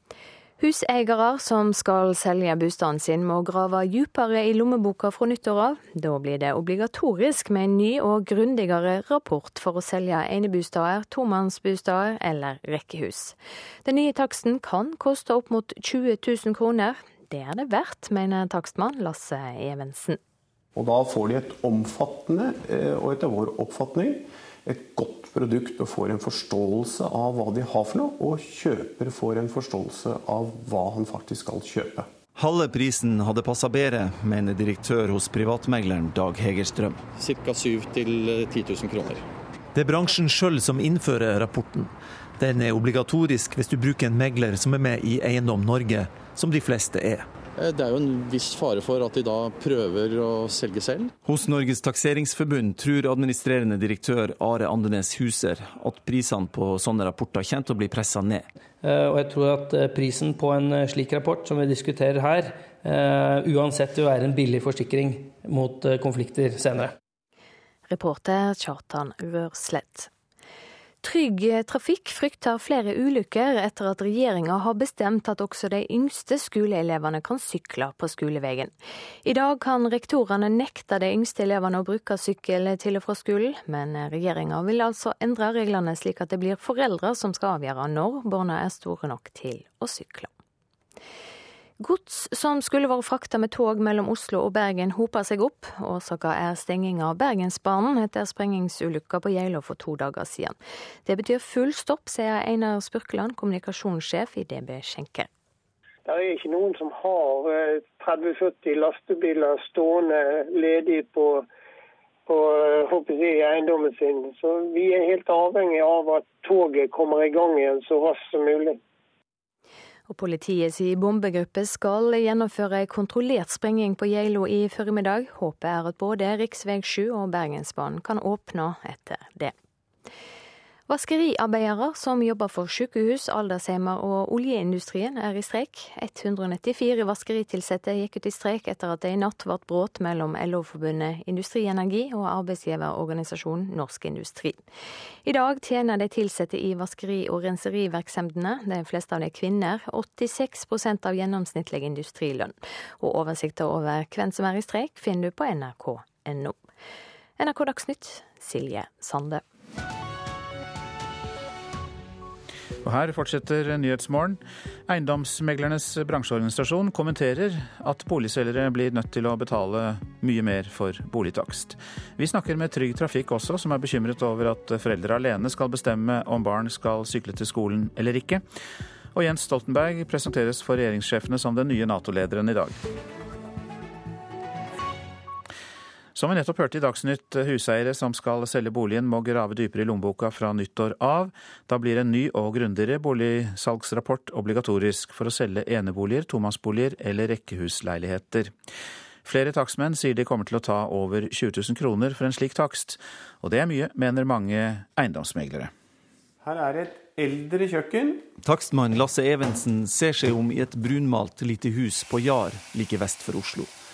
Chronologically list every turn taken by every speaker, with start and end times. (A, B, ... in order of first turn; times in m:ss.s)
0:00.6-0:20.2 A
0:20.7-0:32.1 B
0:32.3-0:37.0 C
0:37.2-0:39.2 D
0:39.7-0:47.3 C
0:47.6-0:51.1 D
0:51.2-0:58.5 C
0:58.8-1:06.9 E
1:07.9-1:10.1 A
1:11.0-1:18.7 A
1:19.2-1:30.3 A
1:31.8-1:45.3 A
1:46.0-1:51.4 F
1:52.2-1:58.8 F
2:00.1-2:09.5 A
2:10.9-2:24.6 A
2:25.2-2:36.6 A
2:37.4-2:39.4 A
2:42.8-2:58.4 G
2:59.1-3:02.8 G
3:06.1-3:18.5 G
3:19.2-3:25.7 G
3:26.4-3:28.2 B
3:28.4-3:33.7 C